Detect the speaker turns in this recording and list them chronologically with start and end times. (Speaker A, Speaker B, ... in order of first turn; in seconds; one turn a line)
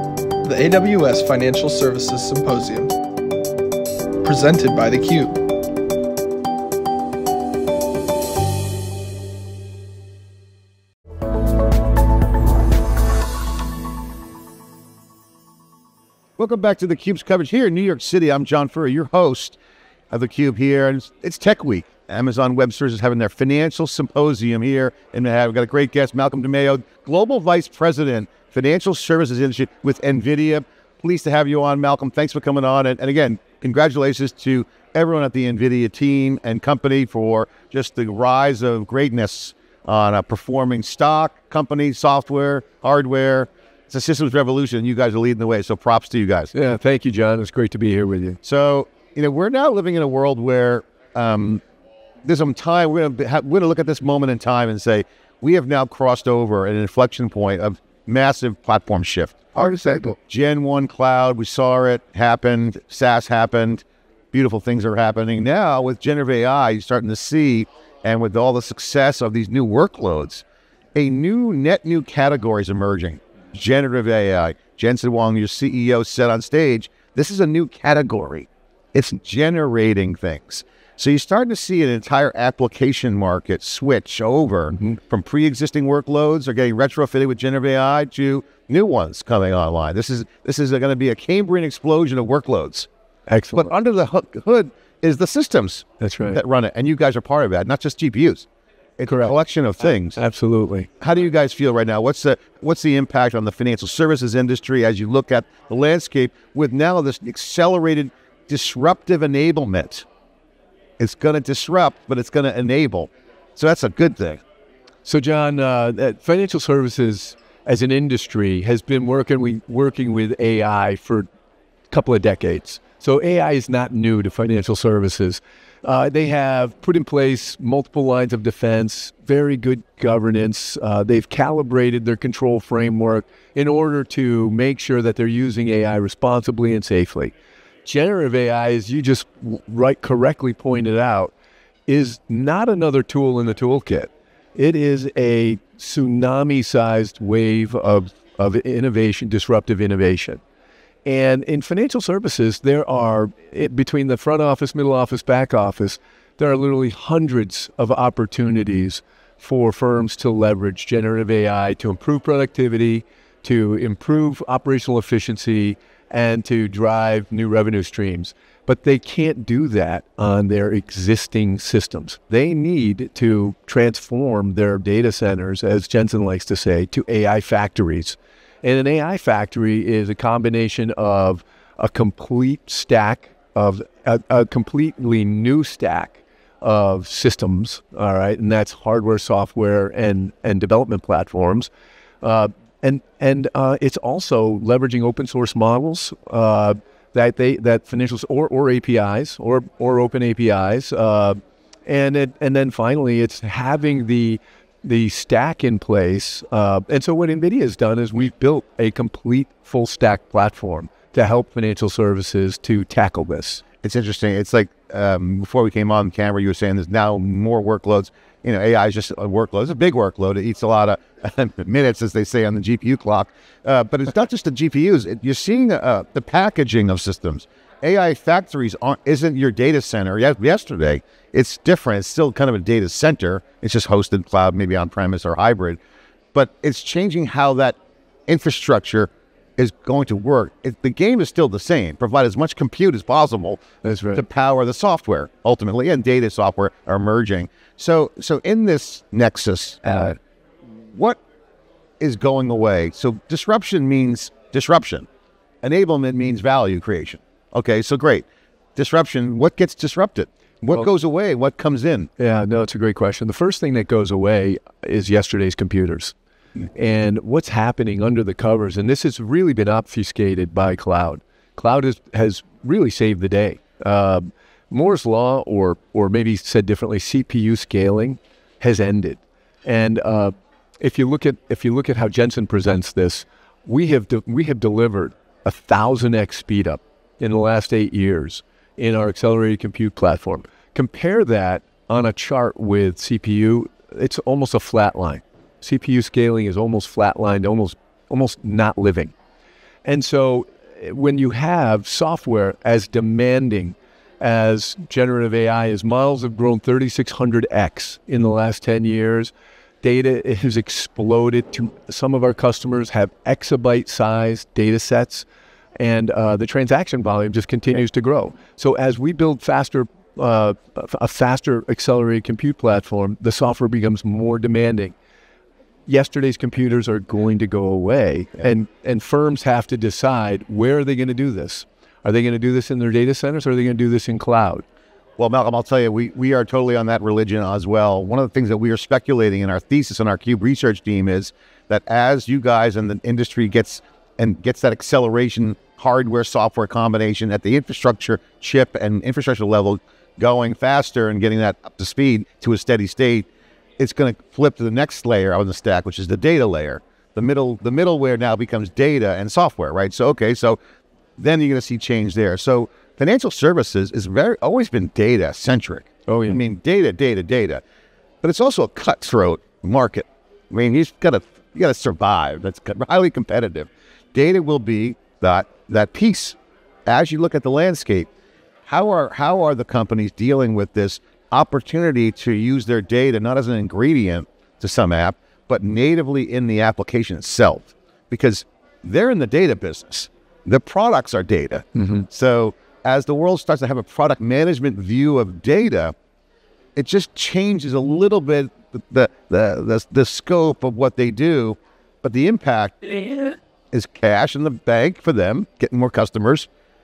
Speaker A: 0.4-2.9
Speaker A: 4.2-5.4
Speaker B: 16.4-19.6
Speaker B: 20.1-46.5
Speaker C: 46.5-48.4
Speaker B: 48.4-51.6
Speaker B: 52.2-70.4
Speaker B: 71.0-92.9
Speaker C: 93.3-93.7
Speaker B: 93.5-98.5
Speaker C: 96.0-96.4
Speaker B: 99.0-100.2
Speaker C: 99.1-99.4
Speaker C: 100.1-100.9
Speaker B: 101.0-110.1
Speaker B: 111.0-114.4
Speaker C: 115.0-121.3
Speaker C: 121.9-137.3
Speaker C: 137.8-141.3
Speaker C: 141.9-150.4
Speaker C: 151.0-191.7
Speaker C: 192.2-213.6
Speaker B: 213.8-235.8
Speaker B: 236.3-237.8
Speaker B: 238.3-243.6
Speaker C: 243.8-244.2
Speaker B: 244.1-250.0
Speaker C: 249.8-250.2
Speaker B: 250.9-251.2
Speaker B: 252.0-255.1
Speaker B: 255.6-262.1
Speaker C: 262.2-266.1
Speaker C: 266.8-299.1
Speaker C: 299.8-315.3
Speaker C: 315.8-324.9
Speaker C: 325.9-334.6
Speaker B: 335.2-353.3
Speaker B: 353.8-360.6
Speaker B: 361.2-367.6
Speaker C: 366.1-366.4
Speaker B: 368.2-376.4
Speaker B: 376.9-378.1
Speaker B: 378.6-395.9
Speaker C: 391.8-392.1
Speaker B: 396.8-406.5